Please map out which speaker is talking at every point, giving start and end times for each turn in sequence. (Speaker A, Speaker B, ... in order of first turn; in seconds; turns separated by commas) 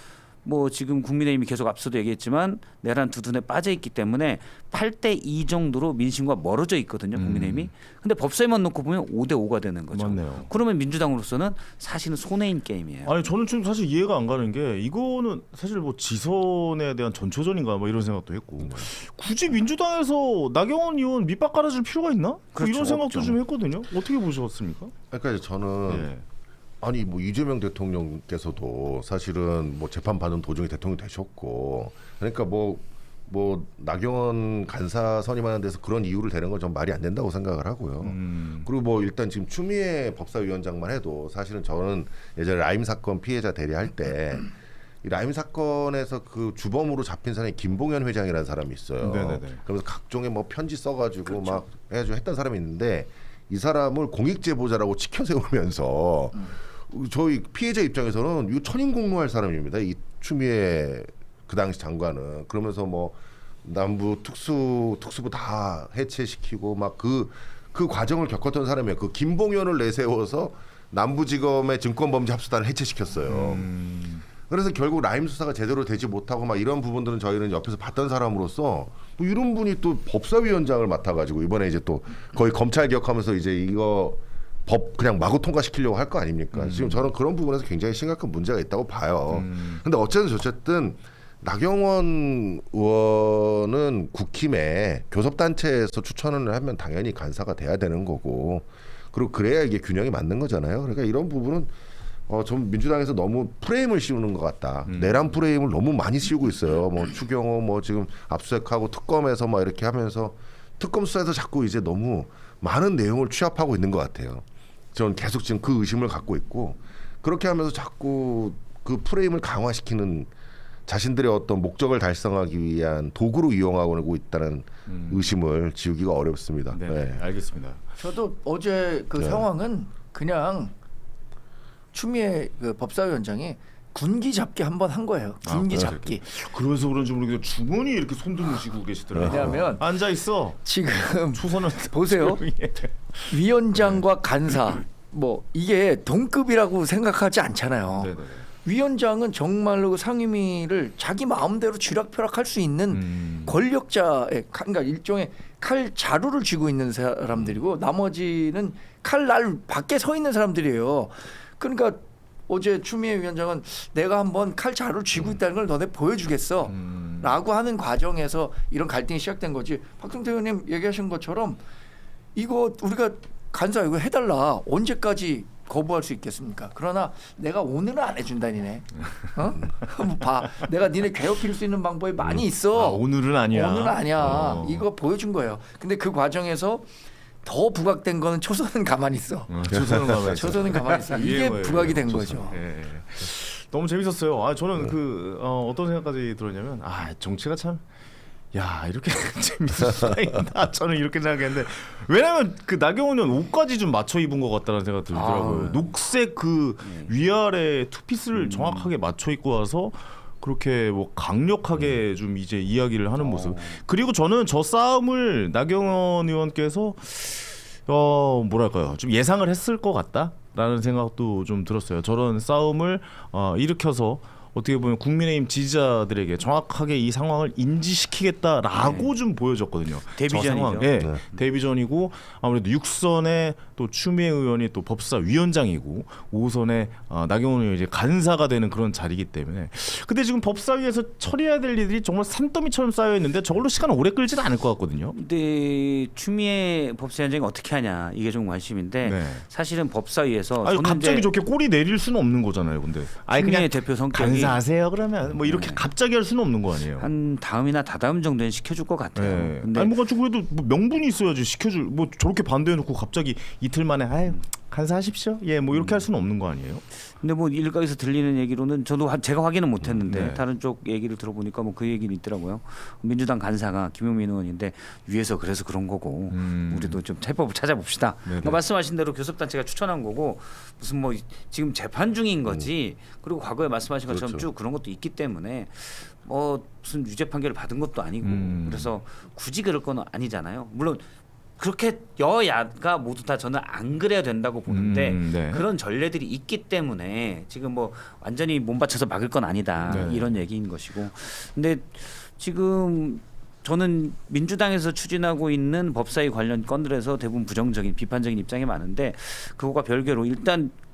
Speaker A: 0.4-13.1, Speaker B: 7.1-7.7, Speaker B: 9.9-10.5, Speaker B: 13.0-24.9, Speaker A: 22.5-23.4, Speaker C: 25.1-26.1, Speaker B: 25.9-26.2, Speaker C: 26.8-73.7, Speaker B: 38.0-38.7, Speaker B: 49.0-49.6, Speaker B: 73.3-74.2, Speaker C: 74.5-101.7, Speaker B: 86.6-87.0, Speaker B: 89.3-89.8, Speaker C: 102.3-120.3, Speaker B: 104.9-105.2, Speaker C: 120.9-127.2, Speaker B: 124.9-125.3, Speaker B: 126.7-127.8, Speaker D: 128.0-130.7, Speaker C: 129.2-129.4, Speaker D: 131.9-136.2, Speaker B: 135.4-140.6, Speaker C: 139.1-139.5, Speaker D: 139.2-139.9, Speaker D: 140.6-142.4, Speaker B: 141.3-144.0, Speaker D: 143.3-171.6, Speaker B: 148.0-148.4, Speaker B: 152.9-153.6, Speaker B: 166.7-167.4, Speaker D: 172.3-186.9, Speaker B: 182.2-184.8, Speaker D: 187.4-192.6, Speaker B: 189.5-197.8, Speaker B: 198.5-245.2, Speaker A: 205.1-205.9, Speaker A: 206.8-207.1, Speaker A: 208.3-208.9, Speaker A: 213.2-213.8, Speaker A: 228.8-229.1, Speaker A: 230.2-230.9, Speaker A: 245.1-251.3, Speaker B: 249.0-249.4, Speaker B: 250.6-257.1, Speaker A: 253.3-254.6, Speaker A: 255.4-255.8, Speaker A: 257.0-259.9, Speaker B: 259.1-266.8, Speaker A: 265.7-266.0, Speaker A: 267.2-291.0, Speaker B: 269.8-270.4, Speaker B: 276.3-277.0, Speaker B: 278.2-278.6, Speaker C: 284.1-284.5, Speaker B: 288.2-288.9, Speaker A: 291.6-310.7, Speaker B: 294.7-295.6, Speaker B: 299.9-300.4